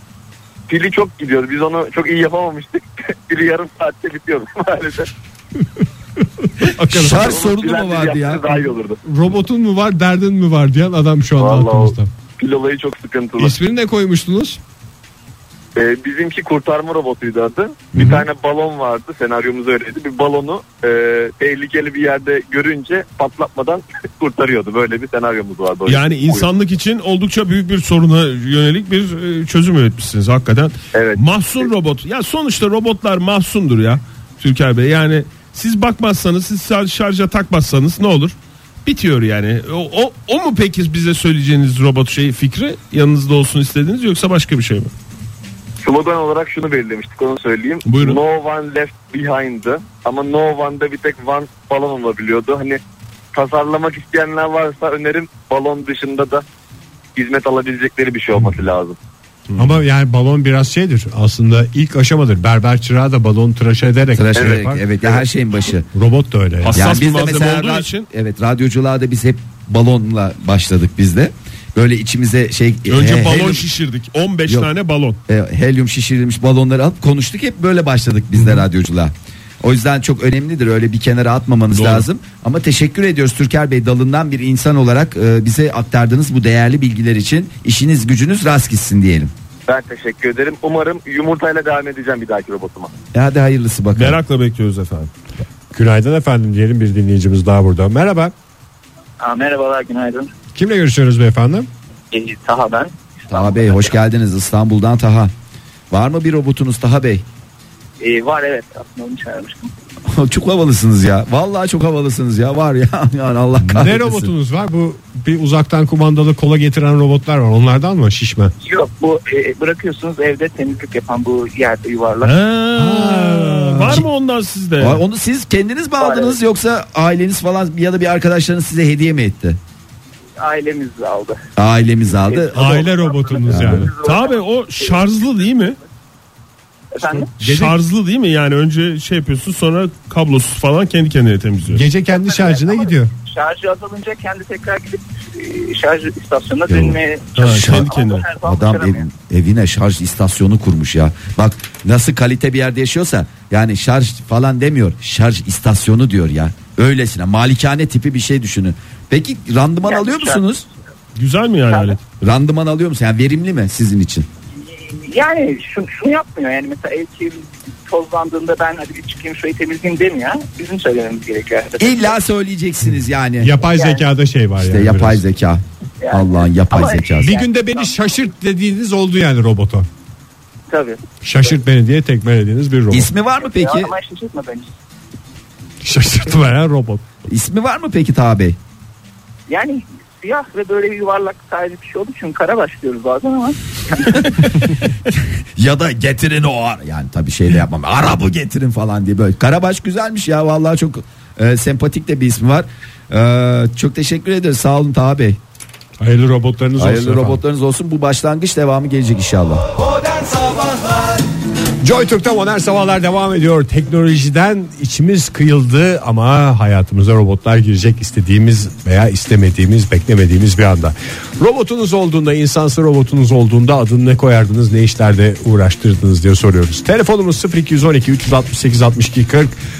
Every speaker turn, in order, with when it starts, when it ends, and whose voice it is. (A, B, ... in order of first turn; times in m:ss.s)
0:00.7-0:05.1 A
0:06.4-0:07.3 B
0:06.9-0:08.7 C
0:07.1-0:09.0 A
0:09.0-0:12.1 B
0:11.4-0:13.5 A
0:13.4-0:14.6 B
0:15.8-0:26.5 A
0:25.9-0:44.9 D
0:30.9-0:31.2 A
0:45.8-0:52.8 A
0:47.8-0:48.2 D
0:53.3-0:56.4 A
0:57.2-0:59.0 A
0:59.5-0:59.8 D
0:59.6-1:04.8 B
1:04.1-1:05.9 C
1:05.9-1:06.8 B
1:06.6-1:08.0 D
1:06.7-1:13.7 C
1:12.9-1:15.2 D
1:15.3-1:29.3 C
1:21.7-1:22.0 D
1:29.7-1:32.9 A
1:33.1-1:34.2 C
1:33.9-1:35.1 D
1:35.7-1:38.3 B
1:39.2-1:40.3 E
1:40.5-1:41.7 B
1:42.1-1:43.9 E
1:43.3-1:45.3 C
1:45.9-1:47.2 C
1:48.0-1:49.7 E
1:50.1-1:54.3 C
1:53.6-1:58.5 B
1:58.6-2:02.3 E
2:02.2-2:05.0 D
2:02.8-2:04.0 B
2:04.8-2:09.6 C
2:06.0-2:06.4 E
2:10.4-2:11.4 E
2:11.6-2:12.9 C
2:12.2-2:15.6 E
2:12.5-2:13.9 B
2:13.5-2:13.8 C
2:13.9-2:15.8 D
2:16.9-2:17.3 E
2:17.1-2:17.8 B
2:17.4-2:21.8 D
2:21.7-2:23.1 B
2:22.1-2:29.0 E
2:26.7-2:27.9 C
2:27.4-2:28.3 D
2:28.4-2:40.6 C
2:39.8-2:40.5 E
2:41.2-2:42.0 D
2:41.7-2:42.0 E
2:42.2-2:44.3 C
2:44.6-2:52.2 E
2:51.8-2:53.5 C
2:53.4-2:55.2 B
2:53.7-2:54.0 E
2:54.6-2:57.4 C
2:56.0-2:58.2 E
2:57.2-2:59.9 B
3:00.7-3:01.6 E
3:01.2-3:03.1 B
3:02.9-3:03.9 C
3:03.4-3:04.7 E
3:05.8-3:07.0 B
3:07.3-3:08.6 C
3:09.5-3:14.4 E
3:15.6-3:25.4 C
3:26.0-3:27.4 B
3:26.8-3:31.2 C
3:31.8-3:49.5 B